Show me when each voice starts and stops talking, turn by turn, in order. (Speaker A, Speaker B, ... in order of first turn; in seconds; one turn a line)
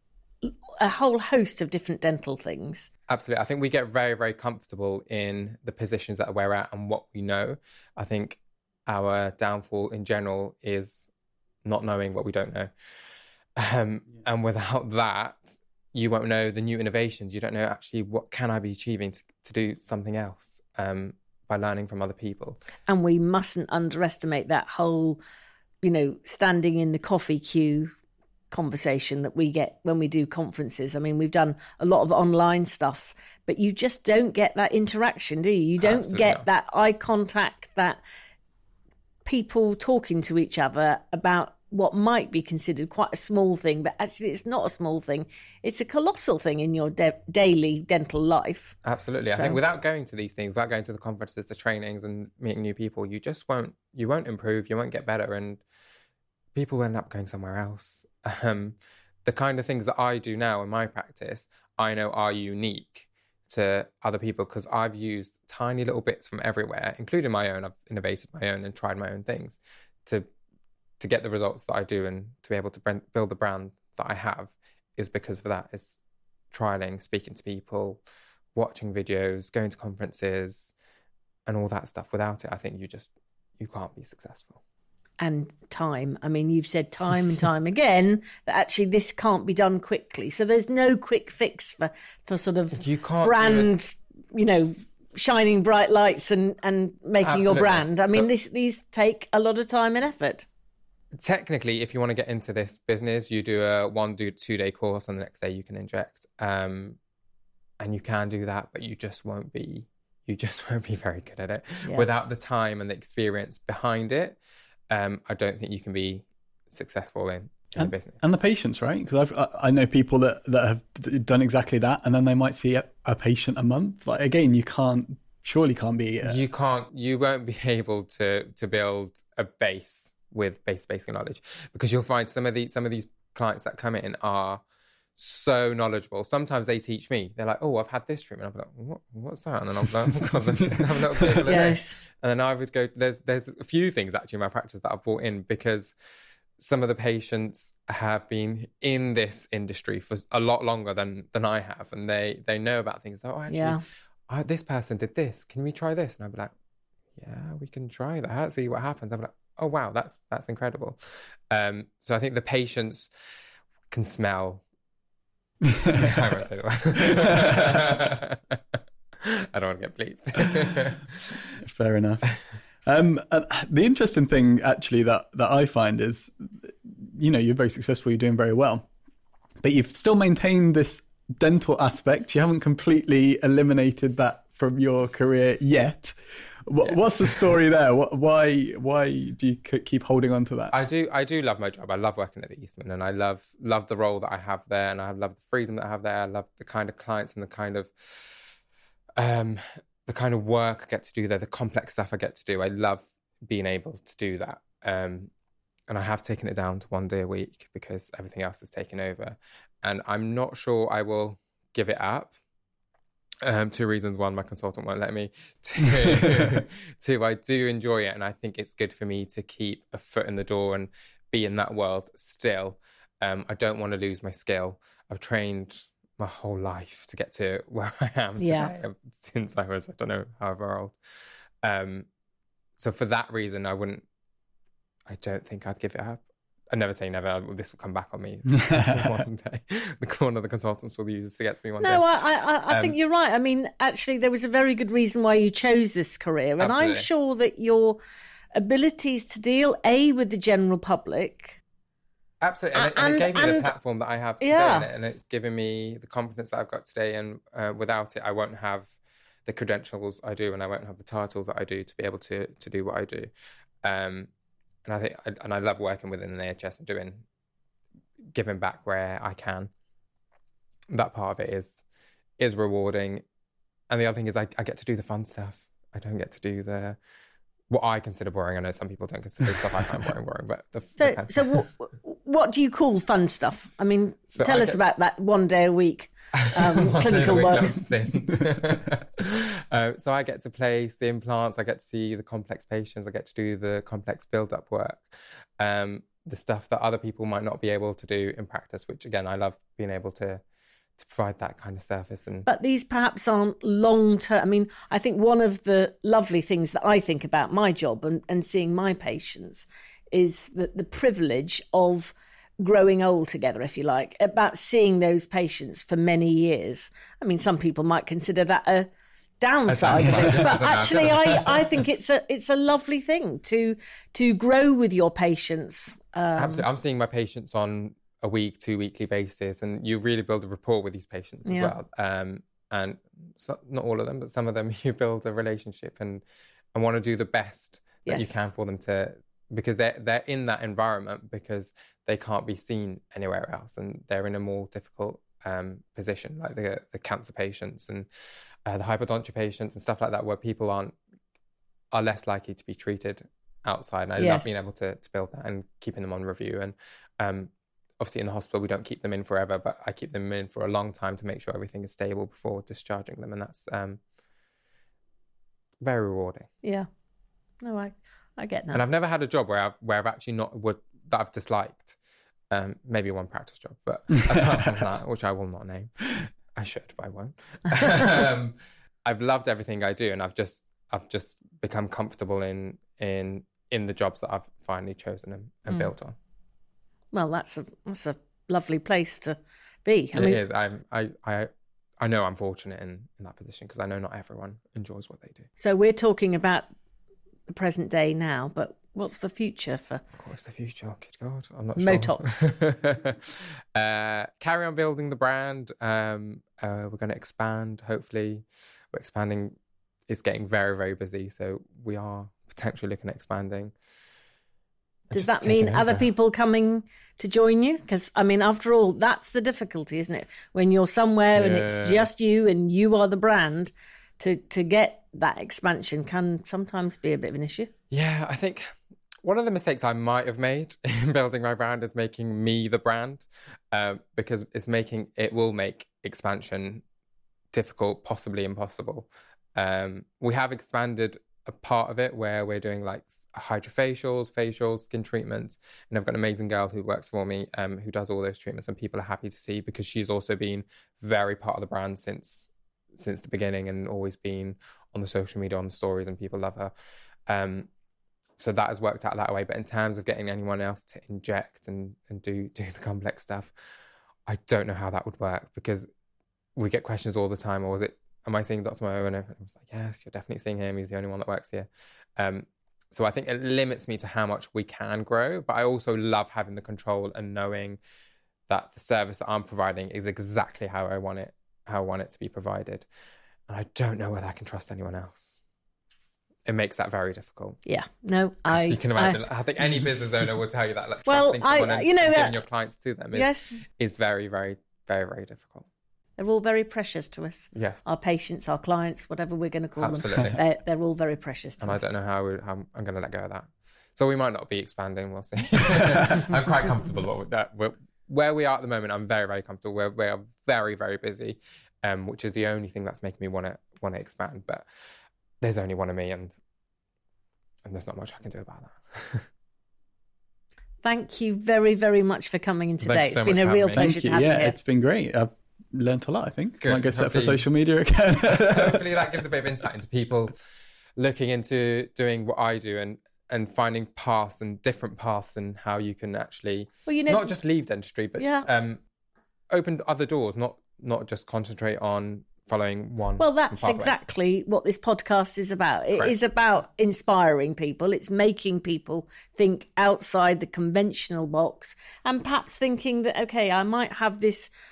Speaker A: 0.4-2.9
Speaker B: 3.1-11.1
Speaker B: 11.7-12.7
Speaker B: 13.6-22.6
Speaker A: 22.9-25.2
Speaker A: 25.8-27.9
Speaker A: 28.5-38.0
Speaker B: 35.8-36.5
Speaker A: 39.2-48.8
Speaker B: 48.8-55.6
Speaker A: 49.3-49.6
Speaker B: 56.5-70.3
Speaker B: 71.0-76.0
Speaker B: 76.5-78.0
Speaker B: 78.5-80.7
Speaker B: 81.5-84.6
Speaker A: 85.2-100.5
Speaker B: 92.7-93.7
Speaker B: 97.2-98.3
Speaker B: 101.2-107.0
Speaker B: 107.8-114.4
Speaker B: 114.9-118.2
Speaker C: 117.8-126.4
Speaker B: 126.2-134.6
Speaker B: 135.2-145.9
Speaker C: 140.6-141.3
Speaker A: 141.5-142.0
Speaker B: 146.6-156.5
Speaker A: 153.5-153.8
Speaker B: 157.2-163.1
Speaker B: 163.9-164.6
Speaker C: 165.7-166.3
Speaker B: 166.0-168.6
Speaker C: 167.0-167.9
Speaker B: 169.2-171.4
Speaker C: 171.6-172.3
Speaker C: 172.8-178.9
Speaker C: 179.6-190.7
Speaker B: 186.8-187.5
Speaker B: 190.7-198.4
Speaker B: 199.2-205.3
Speaker B: 205.9-212.4
Speaker B: 213.4-231.0
Speaker C: 216.1-216.5
Speaker A: 228.4-228.7
Speaker B: 231.6-232.1
Speaker B: 232.8-234.1
Speaker B: 235.1-242.1
Speaker C: 238.7-239.2
Speaker A: 241.8-248.0
Speaker B: 242.7-243.0
Speaker B: 246.6-247.1
Speaker A: 248.5-251.6
Speaker B: 252.4-263.3
Speaker A: 252.7-253.7
Speaker A: 254.4-254.9
Speaker B: 263.8-264.3
Speaker B: 264.9-267.2
Speaker B: 268.3-269.7
Speaker B: 270.9-271.8
Speaker B: 272.4-273.2
Speaker B: 273.9-277.0
Speaker B: 277.7-281.7
Speaker A: 281.0-287.8
Speaker B: 284.3-284.8
Speaker B: 286.4-300.4
Speaker B: 301.0-302.5
Speaker A: 302.5-318.9
Speaker A: 319.4-326.7
Speaker B: 319.7-321.8
Speaker B: 326.4-336.2
Speaker A: 331.5-331.7
Speaker B: 336.8-348.1
Speaker B: 348.7-350.9
Speaker B: 351.9-364.0
Speaker A: 354.2-354.5
Speaker B: 365.8-366.5
Speaker A: 367.6-368.8
Speaker B: 368.7-372.0
Speaker B: 372.5-386.1
Speaker A: 387.1-390.4
Speaker B: 390.1-395.5
Speaker A: 395.6-396.7
Speaker A: 397.5-400.0
Speaker B: 400.2-409.6
Speaker A: 401.8-402.3
Speaker B: 410.1-413.7
Speaker B: 415.1-416.1
Speaker A: 415.1-427.7
Speaker B: 421.3-422.1
Speaker B: 427.9-428.7
Speaker B: 429.2-436.8
Speaker B: 437.5-456.7
Speaker B: 457.3-457.7
Speaker B: 458.4-463.5
Speaker B: 464.3-465.9
Speaker B: 466.6-477.8
Speaker B: 478.5-482.9
Speaker B: 483.5-485.4
Speaker B: 486.5-487.6
Speaker A: 487.7-489.2
Speaker B: 488.5-495.7
Speaker A: 491.1-492.4
Speaker A: 493.1-493.6
Speaker A: 496.2-501.9
Speaker B: 497.5-497.8
Speaker B: 499.8-500.4
Speaker B: 501.6-514.6
Speaker B: 515.4-516.4
Speaker B: 517.6-519.3
Speaker A: 520.8-524.6
Speaker B: 522.8-523.9
Speaker C: 523.8-528.9
Speaker B: 526.6-527.5
Speaker B: 528.3-530.4
Speaker B: 531.0-538.8
Speaker A: 536.9-537.3
Speaker A: 538.2-538.5
Speaker B: 539.5-543.9
Speaker A: 543.2-554.5